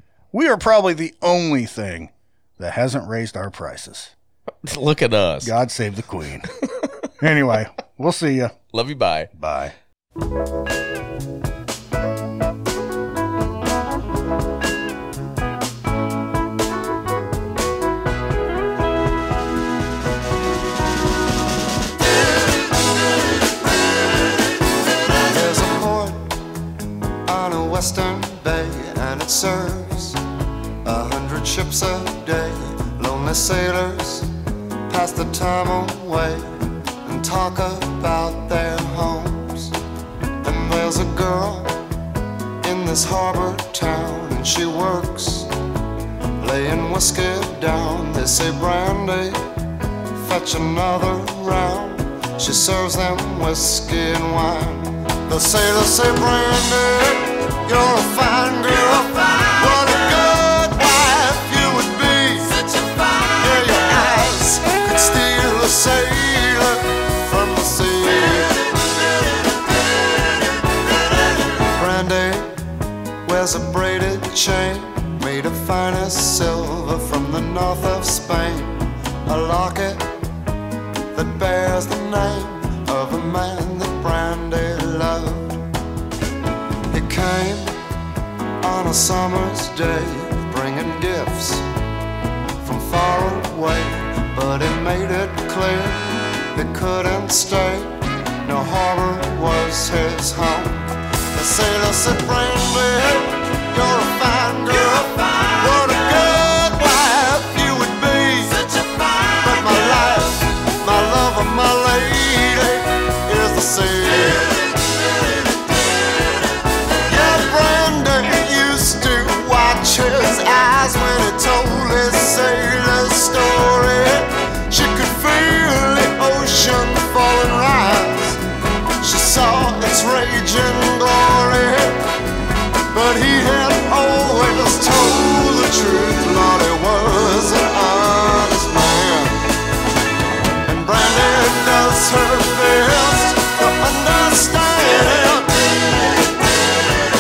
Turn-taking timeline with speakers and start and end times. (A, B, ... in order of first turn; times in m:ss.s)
0:00.3-0:04.1 A
0:04.6-0:05.6 B
0:05.4-0:06.5 A
0:06.7-0:07.1 B
0:07.2-0:08.6 A
0:08.7-0:09.3 B
0:09.3-0:09.7 A
0:25.1-0:26.3 C
0:27.3-0:30.2 C
0:30.8-0:34.3 C
0:34.9-0:36.5 C
0:37.0-0:39.7 C
0:40.4-0:41.8 C
0:42.6-0:45.5 C
0:46.4-0:49.4 C
0:50.1-1:08.9 C
1:11.3-1:12.5 C
1:13.2-1:20.1 C
1:21.1-1:25.6 C
1:26.9-1:27.7 C
1:28.6-1:31.6 C
1:32.6-1:54.7 C
1:57.1-2:08.4 C
2:09.0-2:12.0 C
2:12.9-2:19.4 C
2:20.6-2:26.0 C